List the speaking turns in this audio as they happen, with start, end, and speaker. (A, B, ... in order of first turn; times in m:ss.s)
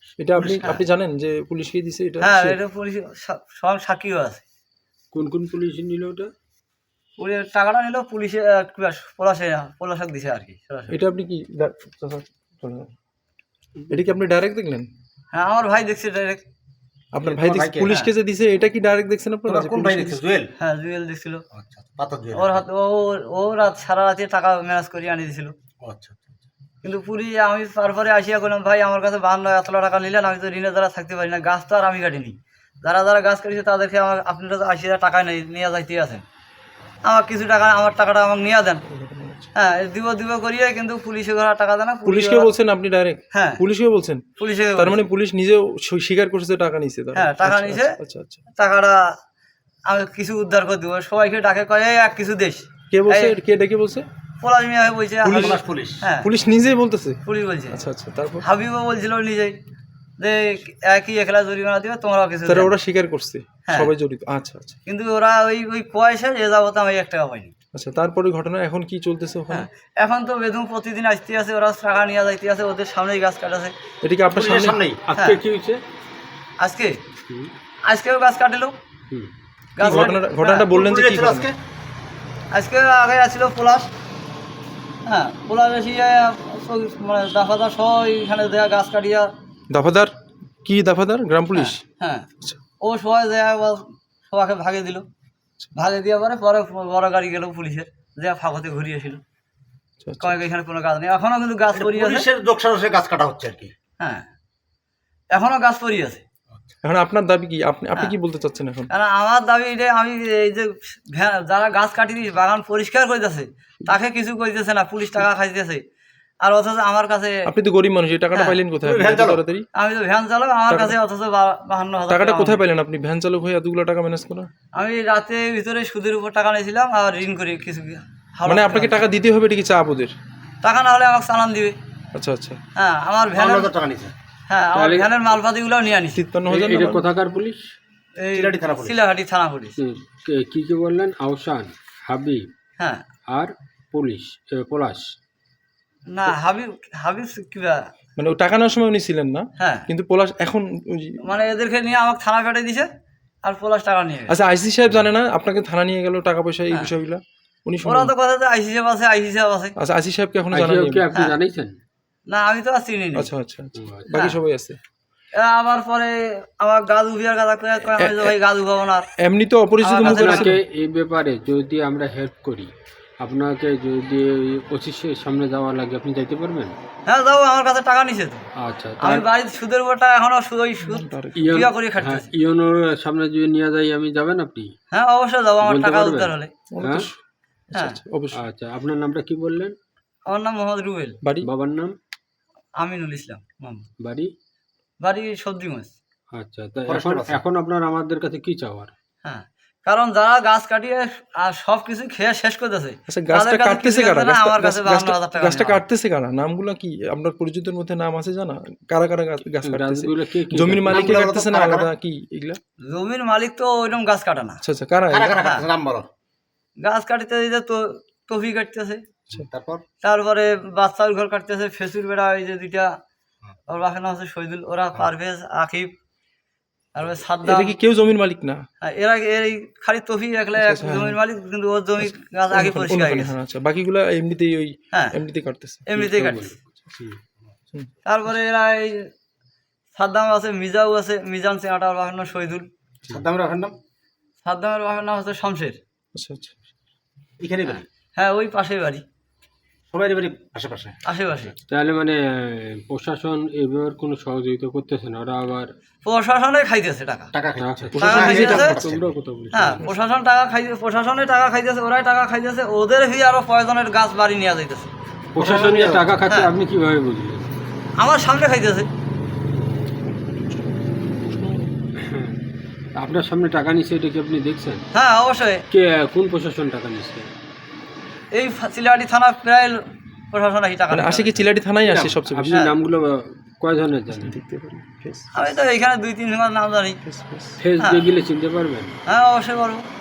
0:00.2-0:02.6 A
0:00.4-0:00.8 B
0:02.2-0:04.4 C
0:05.1-0:06.3 D
0:07.2-0:11.0 C
0:10.9-0:12.9 A
0:13.9-0:14.9 A
0:15.3-0:16.4 C
0:17.1-0:20.2 A
0:17.2-0:17.9 B
0:19.5-0:20.5 B
0:20.6-0:21.4 C
0:21.5-0:22.6 B
0:22.3-0:25.5 C
0:25.8-0:26.4 B
0:26.8-0:36.2 C
0:37.1-0:38.8 C
0:38.9-0:39.5 A
0:39.6-0:42.5 C
0:42.0-0:44.2 A
0:43.3-0:43.6 C
0:44.4-0:45.0 C
0:44.8-0:48.4 A
0:47.2-0:48.0 C
0:48.6-0:49.1 C
0:49.9-0:53.4 C
0:52.9-0:54.1 A
0:54.4-0:56.3 C
0:55.2-0:55.6 A
0:55.3-0:56.0 B
0:56.2-0:58.4 A
0:57.2-0:57.8 C
0:58.4-0:59.6 C
1:00.2-1:02.8 C
1:02.5-1:04.8 A
1:04.9-1:07.5 C
1:07.7-1:09.7 A
1:09.5-1:13.7 C
1:14.0-1:14.8 A
1:14.3-1:15.0 B
1:15.1-1:15.8 D
1:16.6-1:17.0 C
1:17.9-1:18.7 C
1:19.8-1:20.7 C
1:19.8-1:21.5 A
1:20.7-1:21.6 B
1:22.5-1:23.9 C
1:25.1-1:29.3 C
1:29.7-1:30.1 A
1:30.6-1:31.8 A
1:31.5-1:32.3 C
1:32.8-1:35.0 C
1:35.8-1:39.2 C
1:40.0-1:40.4 A
1:40.2-1:42.3 C
1:41.7-1:43.7 B
1:44.0-1:44.3 C
1:45.3-1:46.2 C
1:46.8-1:48.9 A
1:48.9-1:55.8 C
1:56.4-1:57.5 C
1:57.5-1:59.7 A
1:58.3-1:58.6 C
1:58.8-1:59.4 B
1:59.8-2:02.6 C
2:00.7-2:01.0 A
2:02.1-2:04.5 A
2:04.8-2:09.0 C
2:08.5-2:10.1 A
2:10.6-2:11.8 C
2:12.1-2:12.6 A
2:12.8-2:13.7 C
2:13.3-2:14.1 B
2:14.5-2:16.2 C
2:14.8-2:15.1 D
2:16.2-2:17.0 A
2:16.5-2:17.6 D
2:18.2-2:19.8 C
2:18.3-2:19.0 B
2:19.8-2:22.5 D
2:22.8-2:23.0 C
2:23.3-2:25.1 D
2:26.1-2:27.8 C
2:28.2-2:31.2 A
2:29.6-2:29.9 C
2:31.2-2:32.9 C
2:33.4-2:34.4 C
2:34.3-2:38.1 A
2:37.8-2:39.8 C
2:39.8-2:41.1 A
2:40.5-2:41.7 D
2:42.3-2:43.3 C
2:43.2-2:44.8 A
2:43.8-2:44.1 D
2:44.1-2:44.4 C
2:45.4-2:49.1 C
2:48.0-2:48.4 A
2:49.2-2:50.6 A
2:49.8-2:50.5 C
2:50.0-2:56.7 D
2:57.1-2:58.4 C
2:58.6-2:59.3 D
2:59.0-3:02.3 C
3:00.8-3:01.5 A
3:01.4-3:04.7 D
3:04.9-3:06.5 C
3:05.6-3:07.1 D
3:06.7-3:07.2 A
3:07.7-3:08.4 A
3:08.4-3:09.8 D
3:10.3-3:11.2 C
3:11.2-3:11.5 A
3:11.4-3:12.0 D
3:12.8-3:13.9 C
3:14.0-3:14.3 D
3:15.0-3:15.9 C
3:16.3-3:18.9 D
3:16.9-3:17.4 B
3:19.2-3:25.8 C
3:23.1-3:32.6 A
3:29.6-3:31.2 D
3:30.9-3:31.9 B
3:32.9-3:34.6 C
3:34.6-3:35.4 A
3:35.1-3:36.1 B
3:35.4-3:35.7 C
3:36.8-3:39.0 C
3:39.3-3:39.8 B
3:40.0-3:42.9 C
3:43.7-3:45.9 C
3:47.0-3:47.8 C
3:47.4-3:48.6 A
3:48.8-3:53.3 C
3:50.6-3:51.2 A
3:52.0-3:55.9 A
3:55.9-3:56.4 C
3:56.0-3:57.2 D
3:58.1-3:59.1 C
4:00.0-4:02.7 C
4:03.1-4:03.8 B
4:04.4-4:05.8 C
4:06.2-4:06.5 A
4:07.4-4:07.8 B
4:08.2-4:09.0 C
4:09.9-4:11.0 B
4:11.1-4:11.6 C
4:11.7-4:15.7 D
4:16.0-4:17.3 C
4:17.3-4:19.1 B
4:17.6-4:19.8 D
4:17.9-4:19.0 A
4:18.0-4:18.8 C
4:19.5-4:24.9 C
4:25.4-4:27.5 D
4:25.4-4:26.0 B
4:28.0-4:28.9 C
4:31.1-4:31.7 A
4:32.0-4:32.4 D
4:33.0-4:34.8 D
4:34.9-4:35.6 C
4:35.7-4:37.3 D
4:38.4-4:41.4 C
4:40.9-4:42.6 A
4:42.0-4:44.4 D
4:44.1-4:45.5 A
4:45.4-4:47.0 C
4:47.0-4:47.6 A
4:47.6-4:48.9 D
4:47.8-4:48.0 C
4:49.1-4:49.8 C